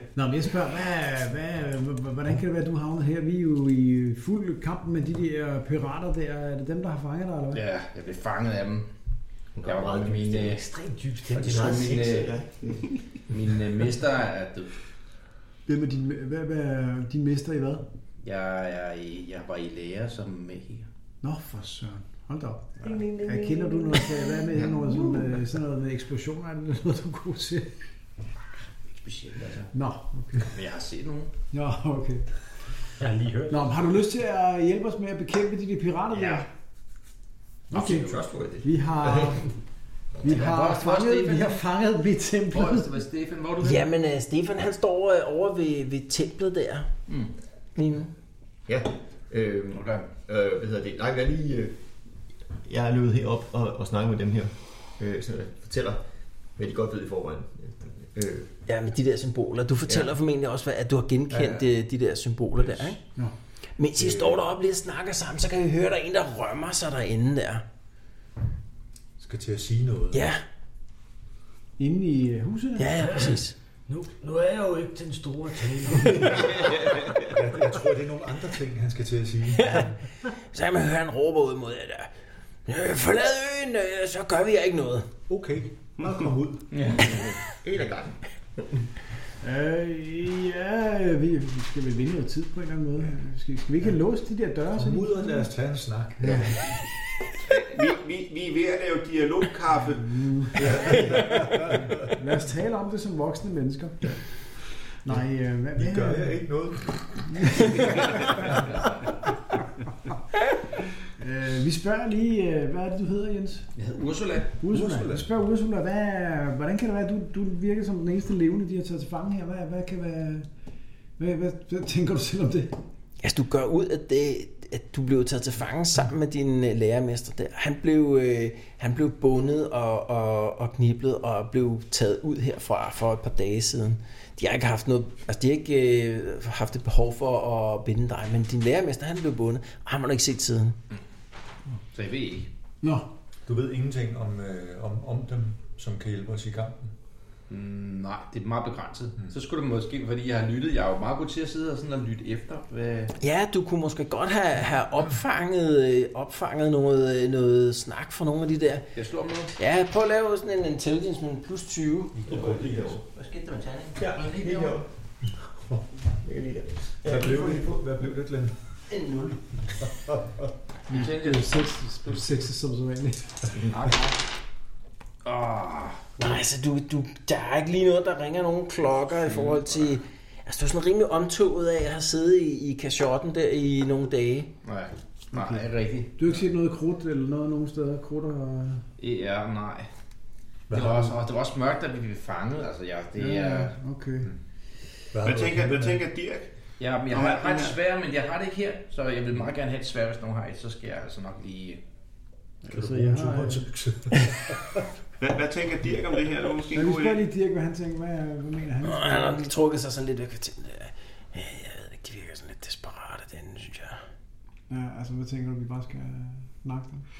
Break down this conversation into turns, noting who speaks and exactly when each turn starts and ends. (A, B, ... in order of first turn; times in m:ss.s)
0:00.1-0:07.6 A
0:07.5-0:08.9 B
0:09.5-0:10.6 C
0:09.7-0:10.6 B
0:10.5-0:12.2 D
0:11.3-0:13.0 C
0:11.3-0:12.3 B
0:13.3-0:14.7 B
0:15.6-0:17.8 A
0:18.2-0:20.8 B
0:21.2-0:27.8 A
0:22.8-0:24.5 D
0:28.9-0:29.7 B
0:29.7-0:30.5 A
0:30.5-0:31.3 B
0:31.5-0:32.3 A
0:33.0-0:33.7 D
0:33.5-0:36.5 A
0:36.1-0:36.4 B
0:37.7-0:39.5 A
0:37.7-0:39.5 C
0:40.2-0:43.0 A
0:40.2-0:41.6 B
0:42.5-0:43.8 B
0:43.6-0:46.9 E
0:47.8-0:48.1 E
0:48.7-0:51.8 C
0:49.7-0:50.0 B
0:52.6-0:56.0 C
0:56.6-0:58.5 C
0:58.7-1:03.0 E
0:59.9-1:00.1 C
1:01.3-1:01.7 F
1:02.6-1:02.9 F
1:03.8-1:07.6 E
1:04.0-1:04.4 F
1:09.2-1:10.3 F
1:10.1-1:10.4 E
1:11.8-1:13.0 A
1:12.8-1:13.5 E
1:13.0-1:16.8 D
1:17.2-1:20.0 F
1:19.6-1:19.8 E
1:20.5-1:22.1 E
1:22.7-1:25.1 E
1:25.3-1:26.8 F
1:26.7-1:27.3 B
1:27.1-1:28.7 C
1:29.4-1:35.5 A
1:34.7-1:36.7 F
1:36.2-1:36.6 A
1:37.5-1:41.0 G
1:40.0-1:44.1 A
1:40.5-1:42.1 F
1:45.0-1:46.4 A
1:45.8-1:48.8 F
1:47.3-1:48.5 A
1:51.2-1:53.7 A
1:53.8-1:54.6 B
1:54.6-2:00.5 A
1:54.7-1:55.3 F
2:01.2-2:02.8 A
2:03.2-2:20.8 E
2:21.9-2:22.5 B
2:22.8-2:23.1 A
2:23.4-2:26.9 F
2:27.5-2:33.1 B
2:33.2-2:38.9 E
2:38.9-2:39.5 B
2:39.6-2:42.2 E
2:42.1-2:43.0 F
2:42.3-2:43.0 C
2:42.3-2:44.8 B
2:44.0-2:44.9 C
2:46.2-2:48.1 C
2:47.0-2:48.5 F
2:49.8-2:50.3 F
2:50.9-2:51.9 B
2:50.9-2:53.6 A
2:53.6-2:54.2 B
2:55.2-2:56.1 B
2:56.2-3:04.5 E
2:59.2-2:59.8 B
3:04.6-3:06.4 B
3:05.3-3:05.7 A
3:06.2-3:08.8 A
3:09.0-3:09.9 B
3:10.7-3:11.2 F
3:10.7-3:13.7 B
3:13.2-3:14.3 A
3:15.1-3:16.1 F
3:15.2-3:16.5 G
3:16.8-3:21.8 B
3:17.2-3:17.6 G
3:22.6-3:23.7 A
3:22.7-3:24.8 F
3:25.2-3:27.2 G
3:26.7-3:29.5 A
3:28.8-3:34.0 E
3:34.7-3:37.0 A